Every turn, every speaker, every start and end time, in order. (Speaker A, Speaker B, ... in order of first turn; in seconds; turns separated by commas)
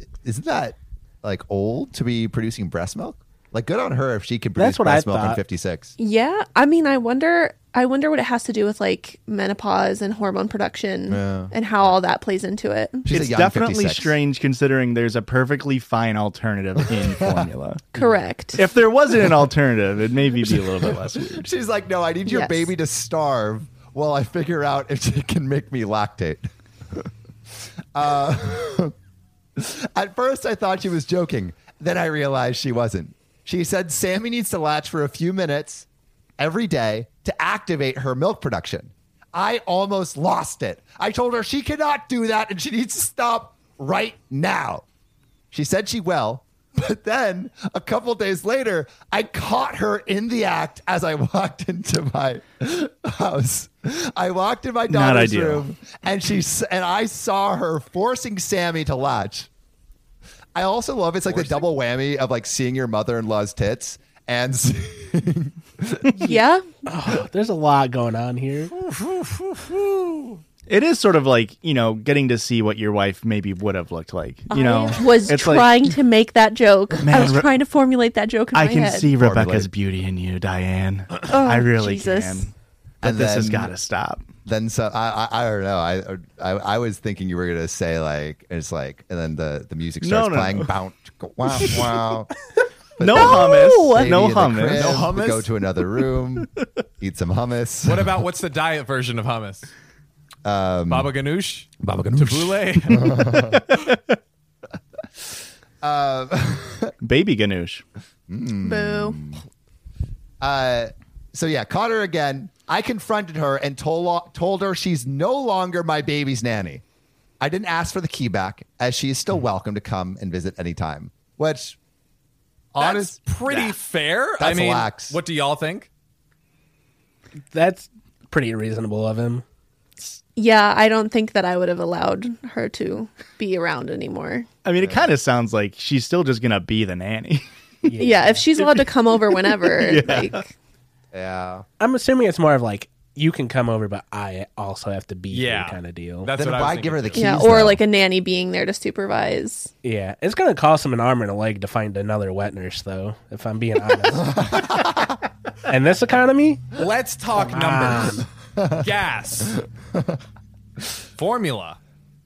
Speaker A: 0.2-6.0, Speaker B: 4.6-5.4, Speaker C: 6.0-13.1, Speaker A: 11.1-11.9, Speaker A: 13.1-14.2, Speaker D: 13.1-18.0, Speaker A: 17.0-17.5, Speaker C: 17.9-18.6, Speaker D: 18.6-21.4, Speaker A: 20.6-26.4, Speaker C: 22.3-22.7, Speaker A: 27.9-28.9, Speaker A: 29.6-35.9, Speaker A: 36.4-44.9, Speaker A: 45.5-59.5, Speaker D: 54.9-55.6, Speaker A: 60.5-66.2, Speaker E: 61.3-61.7, Speaker B: 66.2-68.7, Speaker C: 66.2-66.7, Speaker E: 68.8-70.4, Speaker D: 70.7-76.0, Speaker C: 74.5-79.1, Speaker D: 77.0-77.5, Speaker D: 78.5-84.2, Speaker A: 79.1-79.7, Speaker C: 81.3-82.5, Speaker A: 83.0-83.7, Speaker A: 84.5-92.3, Speaker D: 90.0-90.7, Speaker A: 93.0-98.2, Speaker D: 93.0-95.2, Speaker C: 93.2-94.0, Speaker E: 94.8-95.5, Speaker E: 97.8-99.7, Speaker A: 100.5-101.1, Speaker E: 100.9-103.7, Speaker A: 101.8-103.6, Speaker D: 103.1-103.6, Speaker A: 105.8-106.9, Speaker D: 107.0-107.8, Speaker A: 108.3-109.4, Speaker C: 108.6-109.2, Speaker A: 110.4-116.8, Speaker A: 117.4-121.8, Speaker A: 122.7-123.8, Speaker E: 122.8-125.9, Speaker A: 124.4-125.2, Speaker B: 127.5-129.4, Speaker C: 130.4-134.5, Speaker D: 134.7-137.9, Speaker B: 137.8-138.9, Speaker C: 138.0-140.5, Speaker D: 139.7-140.4, Speaker A: 141.1-141.7, Speaker B: 141.8-146.3, Speaker E: 145.3-147.5, Speaker A: 146.4-147.8, Speaker C: 147.2-149.7, Speaker B: 149.8-154.9, Speaker A: 154.4-155.1, Speaker B: 155.7-156.8, Speaker E: 156.7-158.3, Speaker B: 157.3-158.3, Speaker A: 158.6-158.8, Speaker E: 158.8-159.6, Speaker E: 161.2-161.8